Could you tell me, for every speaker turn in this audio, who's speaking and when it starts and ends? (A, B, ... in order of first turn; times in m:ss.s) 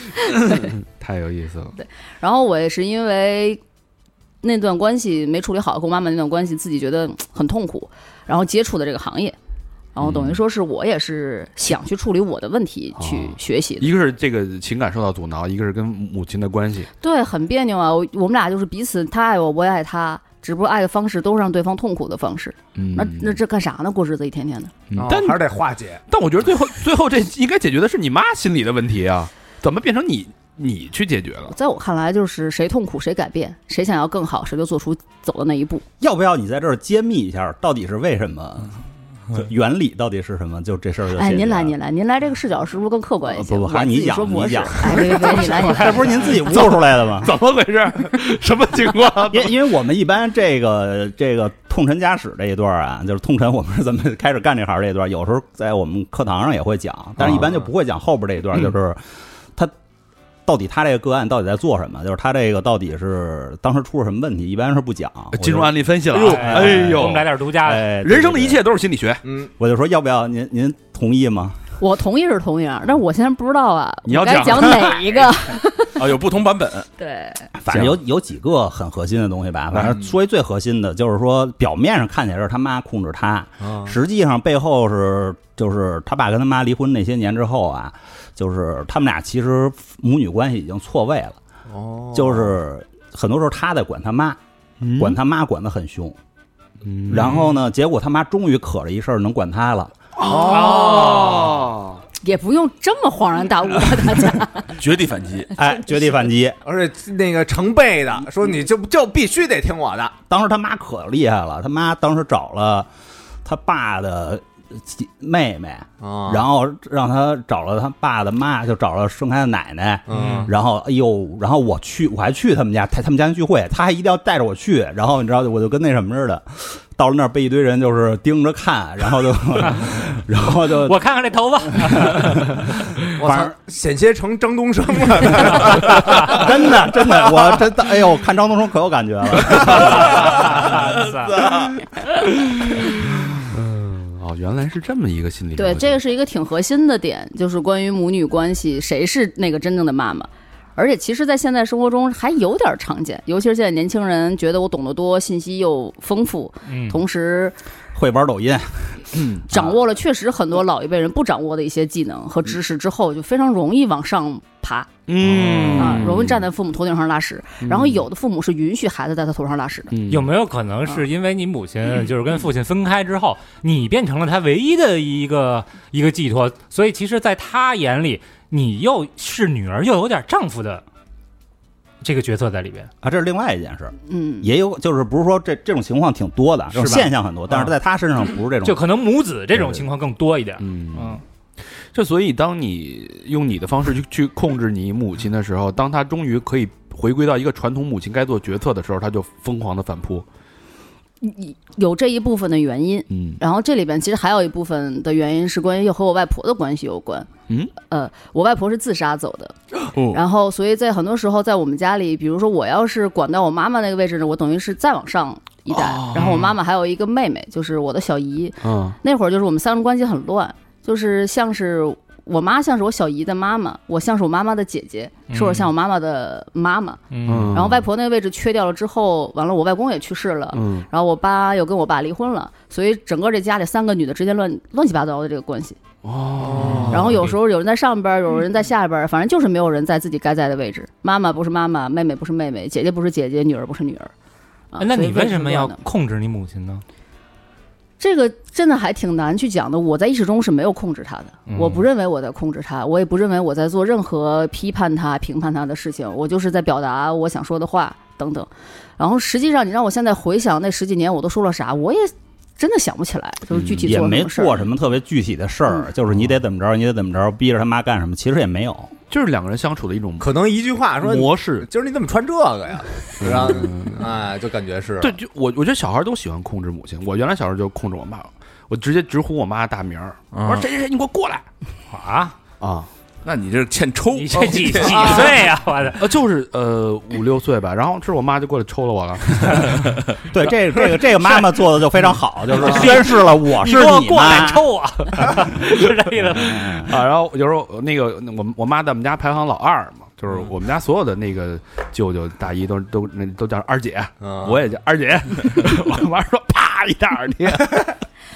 0:00.3-0:01.8 A
0:01.8-0:03.6 B
0:04.4-0:09.4 B
0:09.9-0:13.9 B
0:10.0-0:10.4 A
0:13.0-0:16.9 A
0:17.0-0:24.7 B
0:22.7-0:23.4 A
0:24.9-0:25.4 A
0:25.0-0:26.0 C
0:26.1-0:31.5 A
0:31.5-0:35.8 B
0:36.0-0:38.8 D
0:39.3-0:41.7 D
0:41.1-0:46.3 B
0:43.3-0:47.3 D
0:46.6-0:49.5 A
0:49.3-0:59.0 D
0:57.2-0:57.4 A
1:00.4-1:08.6 D
1:05.3-1:07.3 A
1:06.1-1:07.9 E
1:08.0-1:09.2 A
1:09.2-1:09.5 C
1:09.6-1:11.6 D
1:11.8-1:16.0 B
1:14.0-1:15.2 A
1:16.0-1:16.9 F
1:17.0-1:17.5 B
1:17.6-1:31.4 D
1:17.7-1:18.0 A
1:23.6-1:24.0 C
1:31.7-1:32.5 C
1:32.1-1:34.4 D
1:34.8-1:35.2 A
1:35.0-1:36.2 D
1:36.8-1:37.6 A
1:37.1-1:39.9 D
1:40.2-1:42.0 A
1:40.3-1:41.6 C
1:40.5-1:41.2 B
1:42.2-1:44.7 B
1:44.8-1:45.5 F
1:45.5-1:46.6 D
1:46.6-1:50.1 C
1:50.3-1:52.9 D
1:53.4-2:11.0 D
1:56.0-1:56.4 C
2:00.1-2:00.5 C
2:00.1-2:00.5 E
2:10.8-2:12.5 E
2:11.8-2:12.6 D
2:13.2-2:17.4 C
2:13.2-2:13.5 D
2:16.1-2:20.6 D
2:19.7-2:21.5 E
2:22.7-2:26.0 A
2:25.6-2:37.6 B
2:36.7-2:37.0 E
2:37.9-2:39.7 D
2:39.5-2:44.9 B
2:45.1-2:46.5 A
2:45.7-2:46.0 E
2:45.8-2:49.9 B
2:47.6-2:48.0 A
2:49.9-2:50.3 A
2:50.1-3:00.8 E
3:02.0-3:02.9 E
3:03.0-3:08.9 D
3:04.1-3:04.5 B
3:06.7-3:07.7 E
3:08.6-3:11.2 E
3:09.5-3:09.9 D
3:10.6-3:11.2 A
3:11.9-3:20.2 A
3:21.2-3:29.6 B
3:23.1-3:23.4 A
3:30.1-3:55.8 B
3:35.7-3:36.5 A
3:38.6-3:39.0 A
3:45.3-3:45.7 E
3:47.1-3:47.6 E
3:47.2-3:47.8 A
3:50.5-3:50.9 A
3:56.0-3:57.3 A
3:56.9-4:04.1 B
4:04.7-4:05.8 B
4:04.8-4:06.8 E
4:08.0-4:24.6 B
4:11.5-4:11.8 E
4:23.5-4:23.9 A
4:23.8-4:28.9 D
4:29.1-4:30.3 A
4:30.2-4:35.1 C
4:31.0-4:31.7 A
4:33.2-4:34.1 A
4:35.0-4:41.4 A
4:40.3-4:40.6 F
4:41.9-4:42.4 E
4:42.6-4:42.9 A
4:43.2-4:45.3 F
4:44.1-4:46.0 E
4:44.6-4:45.1 A
4:46.0-4:49.9 A
4:50.3-4:54.7 D
4:52.6-4:56.9 E
4:56.4-4:56.9 D
4:56.9-5:08.0 A
5:04.2-5:04.6 C